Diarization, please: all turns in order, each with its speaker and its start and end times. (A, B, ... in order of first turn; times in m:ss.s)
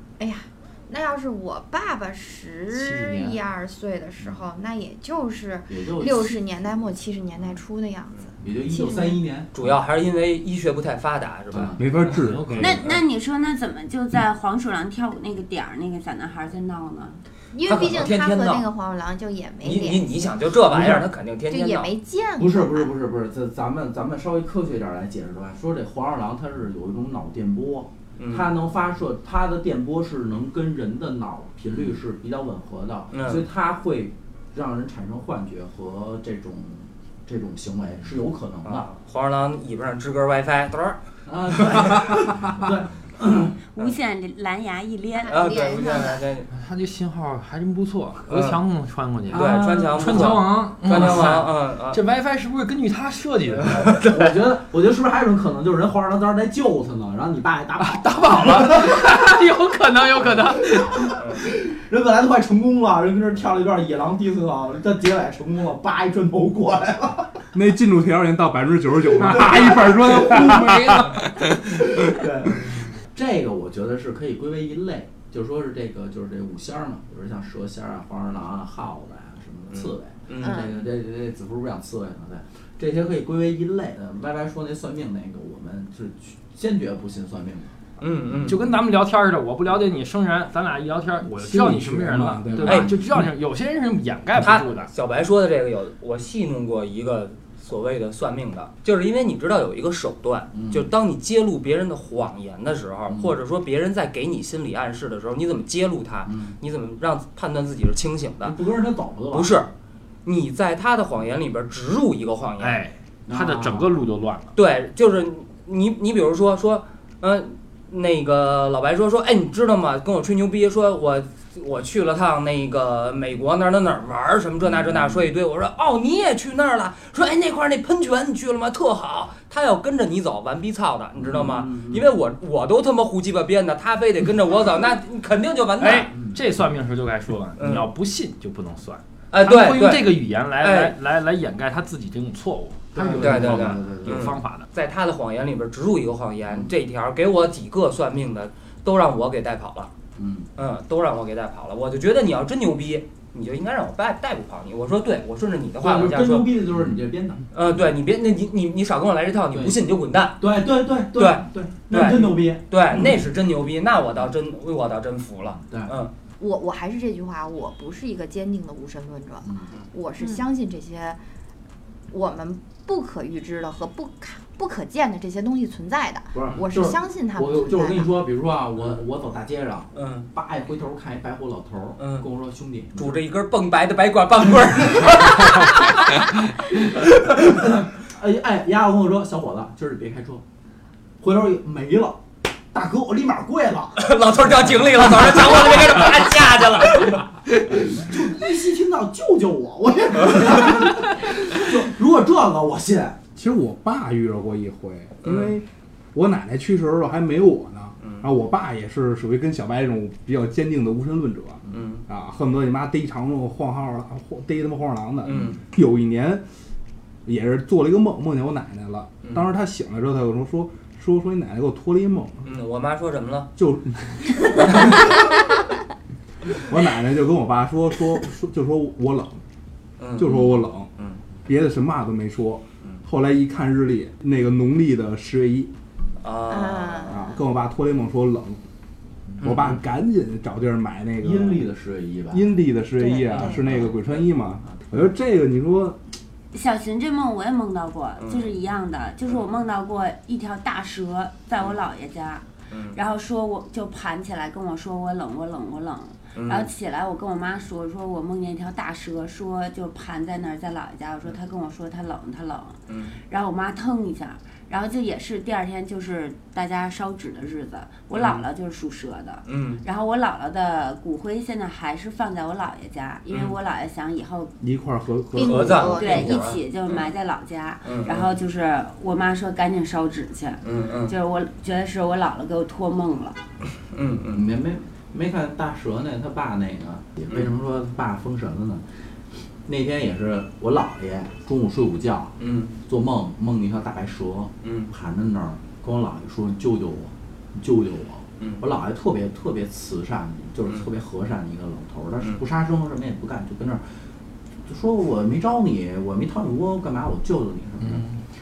0:00.2-0:09.2 A
0:02.7-0:03.4 B
0:05.7-0:06.3 C
0:08.4-0:09.6 C
0:09.6-0:11.8 D
0:11.5-0:12.1 C
0:11.8-0:12.8 E
0:12.1-0:12.8 B
0:12.6-0:17.2 F
0:17.5-0:20.2 A
0:17.6-0:18.7 D
0:19.6-0:21.9 D
0:20.8-0:21.0 C
0:21.5-0:22.9 A
0:22.4-0:38.9 C
0:28.2-0:28.5 D
0:33.1-0:33.4 D
0:38.6-0:41.0 D
0:41.3-0:43.6 C
0:41.6-0:42.2 D
0:43.7-0:45.5 F
0:45.2-0:46.3 A
0:45.3-0:46.5 D
0:46.5-0:54.0 B
0:48.3-0:48.6 D
0:49.3-0:50.4 C
0:49.3-0:52.0 D
0:53.7-0:54.2 D
0:53.8-0:59.4 C
0:57.8-1:01.2 B
1:00.2-1:07.4 C
1:01.2-1:01.5 D
1:07.5-1:11.2 E
1:09.2-1:27.7 C
1:09.2-1:11.3 B
1:19.7-1:20.6 D
1:20.4-1:20.8 A
1:28.0-1:28.6 D
1:28.5-1:34.9 B
1:31.2-1:32.9 E
1:32.5-1:33.0 C
1:34.4-1:48.6 D
1:40.5-1:40.9 C
1:43.1-1:43.4 C
1:46.3-1:46.6 C
1:48.4-1:49.6 C
1:49.3-1:49.7 D
1:50.2-1:52.8 D
1:52.6-1:54.5 B
1:53.3-1:54.0 C
1:54.6-2:16.1 D
2:04.6-2:05.3 C
2:11.2-2:12.1 C
2:15.8-2:24.7 B
2:16.1-2:16.4 C
2:17.6-2:17.9 D
2:19.3-2:21.0 D
2:22.9-2:24.4 C
2:23.2-2:29.9 D
2:26.5-2:26.7 C
2:30.2-2:30.5 C
2:30.6-2:36.7 D
2:35.8-2:37.4 C
2:37.5-2:40.4 D
2:39.5-2:39.8 C
2:40.4-2:43.2 C
2:41.1-2:46.1 D
2:45.6-2:46.0 C
2:46.4-2:51.2 A
2:49.5-2:49.7 C
2:52.1-2:58.1 A
2:56.3-3:03.2 C
3:00.0-3:00.3 D
3:02.0-3:02.3 D
3:03.0-3:06.2 D
3:07.3-3:10.4 C
3:11.2-3:14.1 C
3:14.0-3:17.4 D
3:17.7-3:23.2 C
3:23.4-3:36.4 E
3:25.2-3:25.6 D
3:28.0-3:28.3 D
3:31.7-3:32.0 D
3:35.3-3:35.6 D
3:35.3-3:35.6 C
3:37.3-3:42.5 E
3:39.2-3:39.5 D
3:42.4-3:43.5 D
3:43.6-3:45.4 E
3:46.6-3:49.4 E
3:50.0-3:51.2 D
3:50.2-3:50.9 E
3:51.5-3:55.7 E
3:56.2-3:57.2 D
3:56.5-3:57.4 A
3:57.1-3:58.6 E
3:59.4-4:01.6 E
3:59.4-3:59.8 D
4:01.2-4:02.4 C
4:02.3-4:06.0 E
4:03.0-4:03.9 A
4:03.3-4:03.8 D
4:06.5-4:34.5 F
4:08.2-4:08.5 D
4:12.7-4:13.0 D
4:16.4-4:16.7 D
4:22.9-4:23.2 D
4:28.1-4:28.4 D
4:29.5-4:29.8 D
4:33.3-4:33.6 D
4:34.6-4:36.0 E
4:35.3-4:36.6 A
4:35.4-4:37.1 D
4:35.9-4:43.4 F
4:37.8-4:38.3 D
4:40.6-4:41.1 D
4:43.9-4:44.4 D
4:44.3-4:48.8 C
4:49.7-4:52.4 C
4:52.4-4:52.8 D
4:52.9-5:03.8 C
4:54.6-4:54.9 D
5:04.7-5:08.1 C